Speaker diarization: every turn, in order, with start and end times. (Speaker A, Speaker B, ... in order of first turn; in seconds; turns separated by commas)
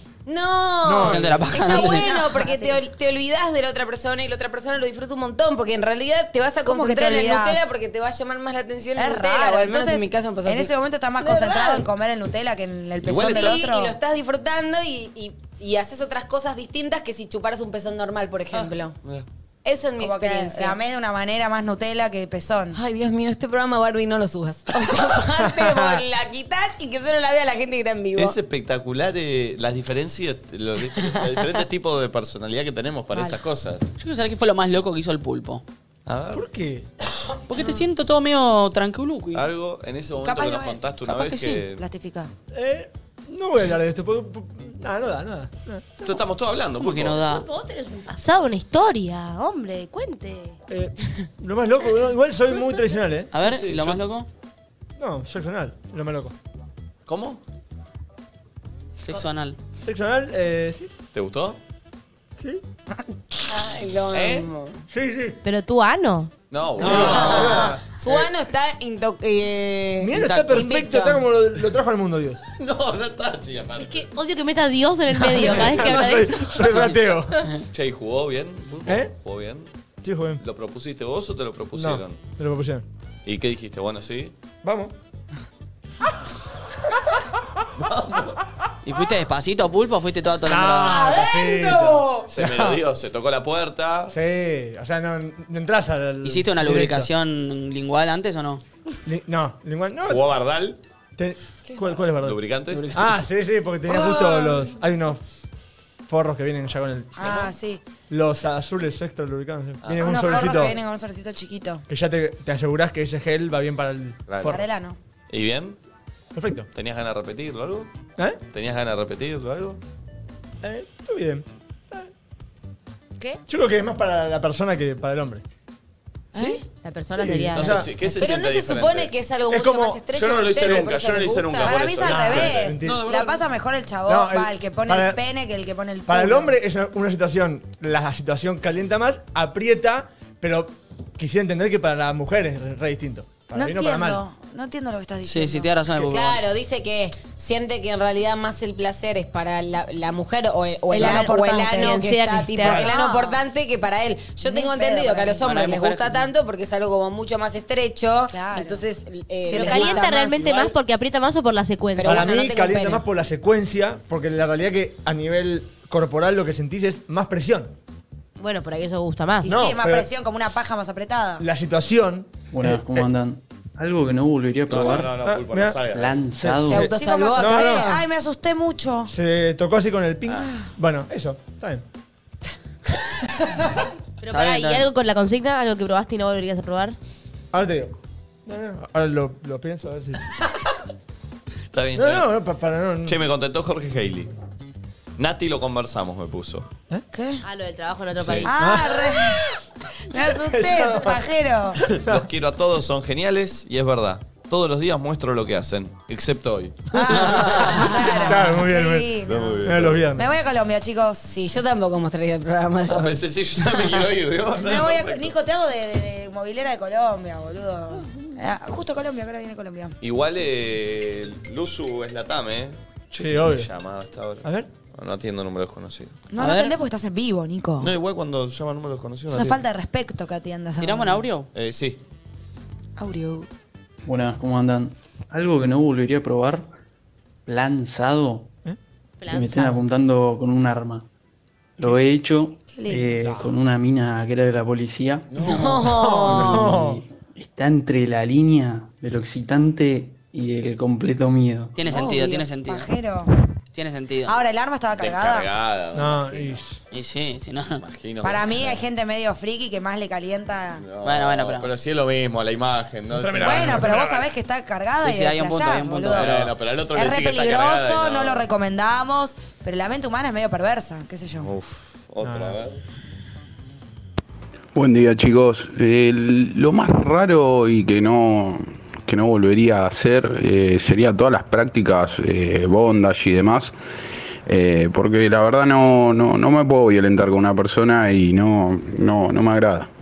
Speaker A: 0.3-11.8, Speaker B: 0.8-1.4, Speaker C: 1.0-2.1, Speaker D: 1.6-2.8, Speaker D: 6.6-7.7, Speaker D: 9.0-14.0, Speaker E: 13.0-13.6, Speaker A: 13.2-18.9, Speaker A: 19.6-20.8, Speaker D: 20.0-22.8, Speaker A: 22.7-28.4, Speaker B: 25.5-26.0, Speaker E: 28.2-33.9, Speaker D: 33.1-33.4, Speaker C: 34.0-35.6, Speaker E: 36.1-36.5, Speaker B: 36.3-36.9, Speaker C: 37.5-39.5, Speaker E: 39.3-41.9, Speaker D: 40.2-41.0, Speaker C: 41.1-41.6, Speaker D: 41.8-42.3, Speaker B: 42.5-46.0, Speaker E: 46.0-47.3, Speaker C: 46.8-47.5, Speaker F: 46.9-50.6, Speaker B: 50.7-53.3, Speaker C: 53.3-54.3, Speaker E: 53.4-54.0, Speaker B: 55.0-56.3, Speaker E: 57.1-57.4, Speaker C: 59.0-59.6, Speaker B: 59.8-60.9, Speaker E: 61.1-61.6, Speaker A: 63.5-64.8, Speaker E: 64.1-64.5, Speaker B: 64.9-65.4, Speaker F: 65.4-66.3, Speaker E: 66.5-67.8, Speaker B: 66.8-68.3, Speaker A: 66.9-71.3, Speaker B: 70.0-72.5, Speaker C: 70.2-70.5, Speaker E: 72.6-74.1, Speaker F: 73.8-76.8, Speaker B: 75.2-77.4, Speaker E: 75.4-76.1, Speaker E: 77.7-79.7, Speaker B: 78.9-79.1, Speaker B: 80.0-80.4, Speaker E: 80.4-82.2, Speaker B: 81.8-82.8, Speaker E: 83.3-84.3, Speaker B: 84.6-84.9, Speaker E: 87.8-88.3, Speaker C: 88.8-91.2, Speaker B: 90.5-92.8, Speaker D: 90.9-92.3, Speaker E: 92.3-94.2, Speaker B: 94.1-97.1, Speaker C: 96.2-98.6, Speaker B: 99.1-100.2, Speaker E: 100.1-100.8, Speaker B: 101.2-102.4, Speaker E: 102.2-103.2, Speaker B: 102.9-105.2, Speaker D: 103.9-104.6, Speaker B: 106.1-107.5, Speaker D: 107.2-107.8, Speaker B: 108.1-110.8, Speaker E: 109.8-110.7, Speaker D: 110.0-111.8, Speaker B: 111.9-114.7, Speaker E: 114.3-114.6, Speaker D: 114.5-115.0, Speaker E: 115.3-115.8, Speaker B: 116.3-116.7, Speaker E: 116.7-119.8, Speaker B: 120.6-122.1, Speaker B: 123.5-125.4, Speaker D: 126.3-126.6, Speaker B: 126.3-126.6, Speaker F: 126.8-127.9, Speaker B: 127.1-128.2, Speaker E: 127.5-129.1, Speaker A: 128.2-131.8, Speaker B: 129.5-131.0, Speaker E: 130.1-133.4, Speaker D: 131.1-136.6, Speaker B: 131.9-133.0, Speaker B: 134.1-135.2, Speaker B: 136.1-144.2, Speaker D: 143.5-145.8, Speaker C: 145.2-146.4, Speaker A: 145.9-160.4, Speaker D: 150.9-152.1, Speaker F: 151.0-152.8, Speaker D: 152.6-153.4, Speaker D: 154.4-155.5, Speaker C: 155.4-156.2, Speaker D: 158.3-158.8, Speaker D: 159.4-160.2, Speaker F: 159.4-162.3, Speaker B: 160.3-160.8, Speaker A: 162.0-163.0, Speaker B: 162.0-167.7, Speaker F: 168.4-169.6, Speaker D: 169.4-171.5, Speaker B: 169.5-170.1, Speaker B: 171.4-173.1, Speaker G: 172.5-175.2, Speaker E: 174.7-176.3, Speaker B: 174.8-176.7, Speaker G: 175.9-176.9, Speaker A: 176.7-178.0, Speaker D: 176.8-179.1, Speaker B: 177.4-177.9, Speaker B: 179.1-181.8, Speaker F: 184.2-187.0, Speaker C: 184.3-184.9, Speaker B: 187.5-187.9, Speaker B: 188.5-190.2, Speaker E: 191.7-192.3, Speaker B: 191.9-193.2, Speaker E: 193.1-194.3, Speaker E: 195.2-196.7, Speaker D: 197.1-197.4, Speaker F: 197.4-198.6, Speaker D: 198.4-199.4, Speaker B: 198.6-199.2, Speaker D: 200.0-201.8, Speaker B: 200.4-201.2, Speaker E: 201.9-207.9, Speaker D: 206.9-211.3, Speaker B: 207.0-209.1, Speaker E: 209.2-210.1, Speaker B: 209.7-210.3, Speaker A: 211.3-214.1, Speaker E: 212.9-215.3, Speaker D: 214.6-219.9, Speaker E: 220.0-226.2, Speaker B: 223.2-223.7, Speaker B: 224.4-224.7, Speaker D: 226.3-227.9, Speaker C: 226.4-226.8, Speaker E: 227.8-229.6, Speaker D: 229.3-231.3, Speaker C: 230.8-231.5, Speaker E: 231.5-232.0, Speaker D: 233.0-233.5, Speaker G: 234.1-236.7, Speaker G: 237.5-238.5, Speaker F: 239.2-239.8, Speaker G: 239.3-241.1, Speaker G: 241.8-251.8, Speaker D: 242.7-243.2, Speaker E: 245.3-246.0, Speaker A: 245.4-246.7, Speaker B: 245.9-247.0, Speaker C: 251.8-252.9, Speaker D: 251.8-253.3, Speaker C: 253.7-254.3, Speaker D: 254.2-255.5, Speaker E: 255.0-256.6, Speaker B: 255.9-256.8, Speaker C: 256.9-257.8, Speaker E: 257.8-258.8, Speaker D: 258.2-260.9, Speaker E: 260.8-264.0, Speaker C: 261.0-261.7, Speaker B: 263.1-264.2, Speaker D: 263.4-266.4, Speaker C: 265.0-266.5, Speaker E: 266.1-268.5, Speaker D: 266.9-271.5, Speaker E: 271.4-272.8, Speaker B: 272.2-272.6, Speaker H: 274.8-283.7, Speaker H: 284.5-289.9